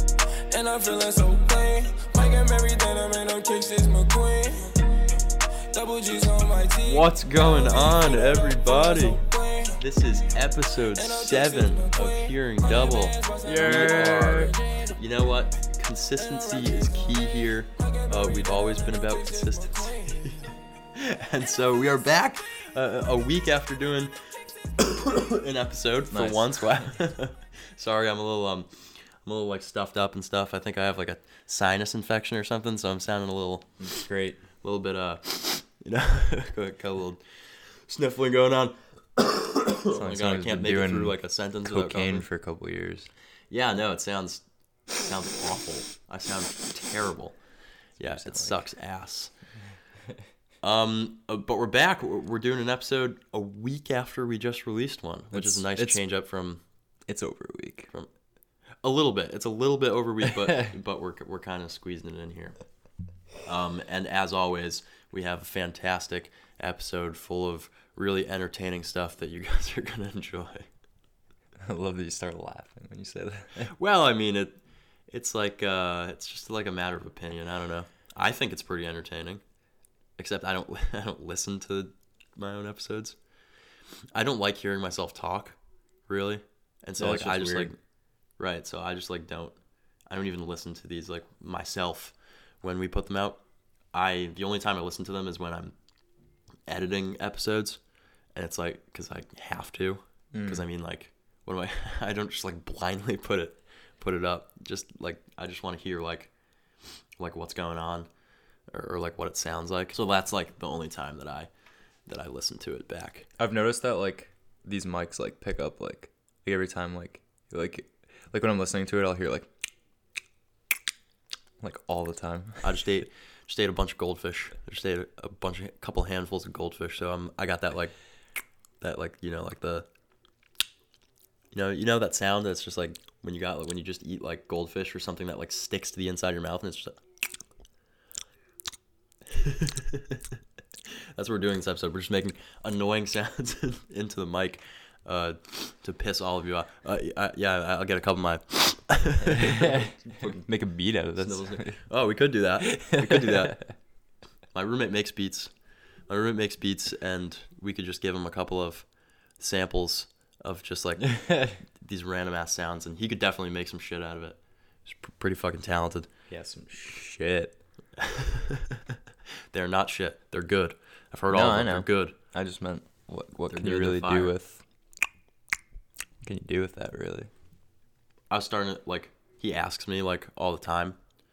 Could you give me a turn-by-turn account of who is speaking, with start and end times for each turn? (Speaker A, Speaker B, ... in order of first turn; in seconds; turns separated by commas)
Speaker A: 0.5-4.9, Speaker A: 5.7-9.8, Speaker B: 6.8-9.2, Speaker B: 9.8-34.1, Speaker A: 10.9-14.9, Speaker C: 13.4-14.5, Speaker A: 16.3-17.2, Speaker A: 17.8-20.3, Speaker C: 26.1-26.8, Speaker C: 33.8-34.4, Speaker B: 34.6-42.3, Speaker C: 39.9-43.1, Speaker B: 43.5-47.4, Speaker B: 48.0-49.3, Speaker C: 48.0-48.6, Speaker B: 50.6-56.6, Speaker C: 55.3-56.0, Speaker C: 57.1-57.9, Speaker B: 58.8-62.6, Speaker C: 60.2-60.7, Speaker B: 63.4-70.7, Speaker C: 71.6-73.7, Speaker B: 73.6-79.4, Speaker B: 80.2-83.2, Speaker B: 84.1-87.8, Speaker C: 87.0-87.7, Speaker B: 88.4-89.5, Speaker B: 90.1-93.4, Speaker B: 93.9-95.8, Speaker B: 96.7-97.8, Speaker B: 98.3-106.3, Speaker C: 100.3-100.6, Speaker B: 107.2-108.1, Speaker B: 108.7-111.5, Speaker B: 112.1-113.3, Speaker C: 113.4-119.5, Speaker C: 121.6-122.8, Speaker B: 122.6-128.0, Speaker B: 128.8-129.9, Speaker B: 131.5-137.0, Speaker B: 139.3-140.2, Speaker B: 140.9-150.4, Speaker C: 149.2-151.8, Speaker B: 151.2-153.6, Speaker C: 152.7-153.7, Speaker B: 154.5-155.6, Speaker B: 156.1-166.1, Speaker C: 161.1-161.6, Speaker C: 166.3-167.6, Speaker B: 168.0-168.8, Speaker B: 169.5-172.2, Speaker C: 171.3-174.6, Speaker B: 173.5-174.3, Speaker C: 176.2-177.3, Speaker B: 178.3-181.0